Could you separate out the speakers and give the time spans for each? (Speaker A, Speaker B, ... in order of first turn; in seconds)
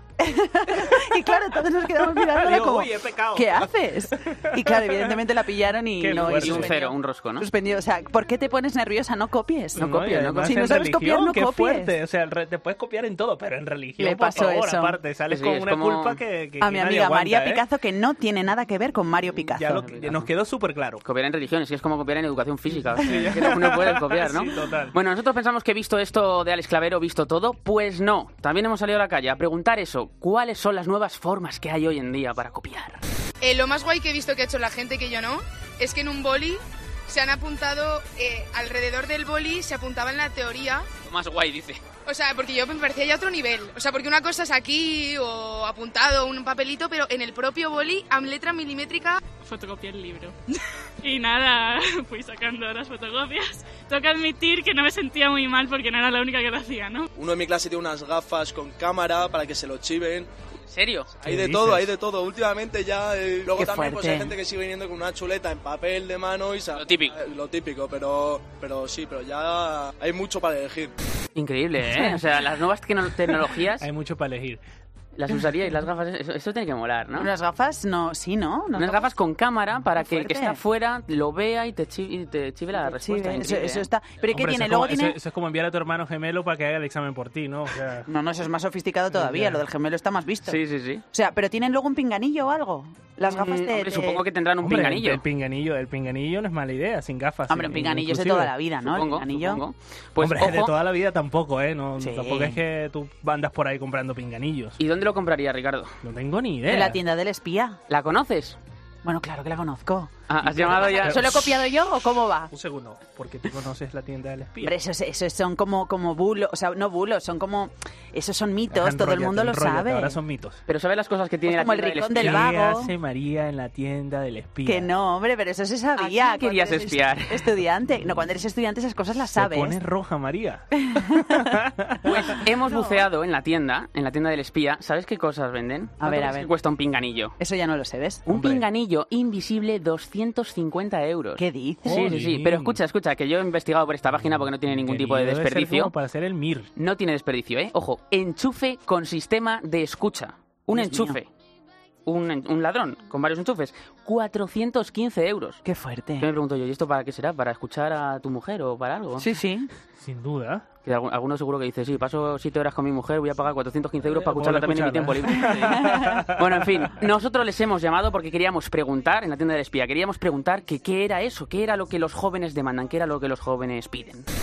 Speaker A: 0.2-11.9, 14.0-15.0, 16.6-19.9, 63.5-64.3, 77.1-79.1, 80.0-80.6, 82.8-85.2, 88.1-90.6, 91.1-94.2, 97.5-99.6, 102.0-102.6, 106.7-107.8, 109.0-112.5, 114.6-120.2, 121.5-122.9, 124.6-129.8, 130.8-131.4, 136.0-136.5, 137.4-138.2, 141.4-142.2, 150.7-151.2, 155.6-156.3, 159.2-159.7, 165.7-166.2
Speaker B: 2.2-3.7, 4.3-5.1, 6.0-6.8, 9.8-17.6, 19.5-21.0, 23.0-24.9, 61.2-61.9, 73.8-74.6, 84.3-88.1, 89.1-89.6, 94.6-98.5, 100.2-104.8, 106.0-107.0, 110.9-111.2, 112.5-114.7, 118.7-120.6, 122.1-124.9, 129.3-132.9, 138.3-138.6, 141.8-142.8, 144.7-146.7, 160.0-160.7, 164.1-166.4
Speaker C: 6.1-7.5, 9.8-10.4, 15.3-16.2, 19.8-20.3, 21.0-33.0, 41.0-41.8, 60.7-61.2, 66.7-67.1, 71.3-73.8, 75.1-77.3, 78.7-83.9, 90.5-91.0, 93.2-95.2, 98.8-100.7, 104.8-105.9, 107.9-108.6, 110.3-111.6, 120.7-122.5, 126.0-127.5, 132.0-137.3, 138.2-145.9, 146.8-151.3, 152.1-155.6, 156.2-159.3, 160.8-174.3
Speaker D: 33.4-40.9, 42.0-49.2
Speaker E: 49.4-50.4, 51.0-57.1
Speaker F: 57.1-60.3, 61.2-70.9